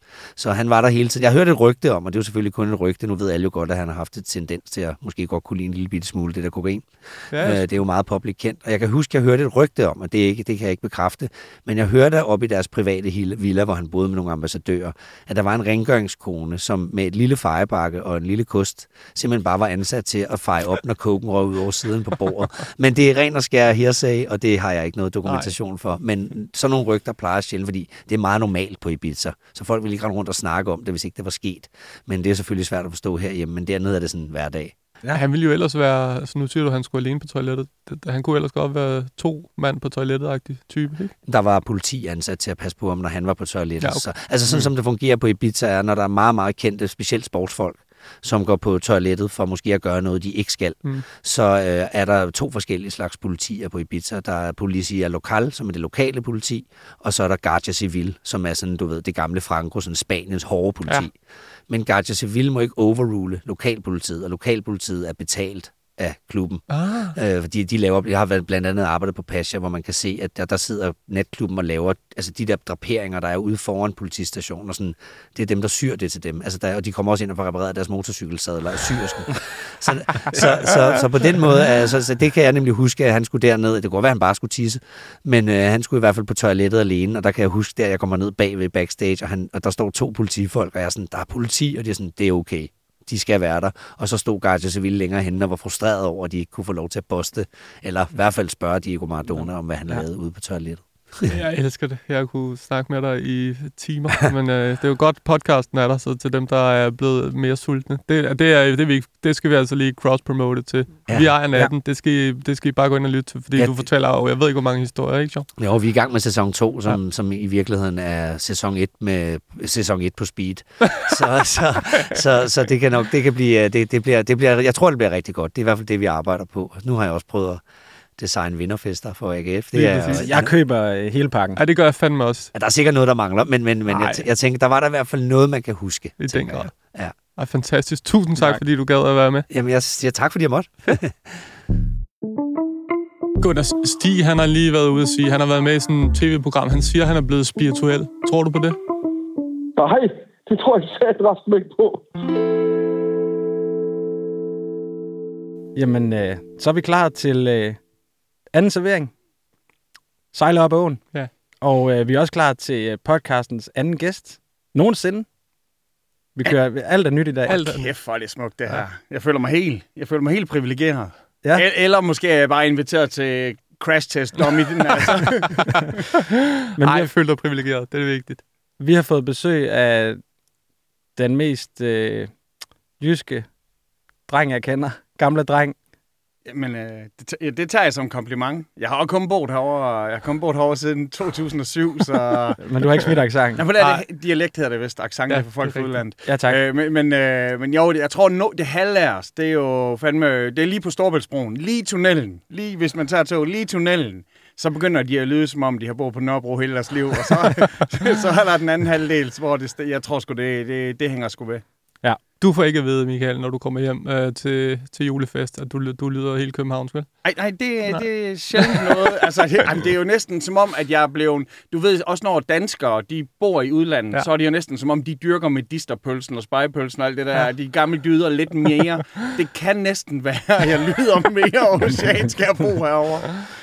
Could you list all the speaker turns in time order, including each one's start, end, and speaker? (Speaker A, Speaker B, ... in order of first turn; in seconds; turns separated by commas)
Speaker A: 0.4-34.7, Speaker B: 7.3-7.6, Speaker B: 25.2-25.5, Speaker B: 35.1-41.1, Speaker A: 41.3-61.1, Speaker B: 43.8-44.6, Speaker A: 61.7-101.4, Speaker B: 66.7-67.2, Speaker B: 101.3-115.5, Speaker A: 111.1-111.7, Speaker A: 113.5-113.8, Speaker A: 115.6-127.6, Speaker A: 128.2-130.5, Speaker B: 129.7-130.3, Speaker C: 130.1-131.6, Speaker B: 131.6-132.5, Speaker A: 132.5-137.1, Speaker B: 133.9-134.3, Speaker B: 136.2-139.5, Speaker A: 138.4-138.6, Speaker A: 139.5-141.4, Speaker B: 143.4-148.8, Speaker D: 149.8-152.1, Speaker C: 155.8-157.8, Speaker C: 158.5-159.1, Speaker C: 160.3-165.3, Speaker C: 166.4-167.6, Speaker B: 167.5-167.9, Speaker E: 167.5-175.8, Speaker C: 176.8-177.1, Speaker B: 176.8-178.4, Speaker C: 178.8-180.2, Speaker C: 181.2-182.3, Speaker C: 183.0-183.5, Speaker C: 184.3-185.8, Speaker E: 186.4-192.6, Speaker C: 192.6-193.7, Speaker E: 193.6-211.6, Speaker B: 193.8-194.0, Speaker B: 195.3-196.0, Speaker C: 196.2-196.6, Speaker B: 212.4-218.0, Speaker E: 217.2-233.5, Speaker B: 218.6-218.9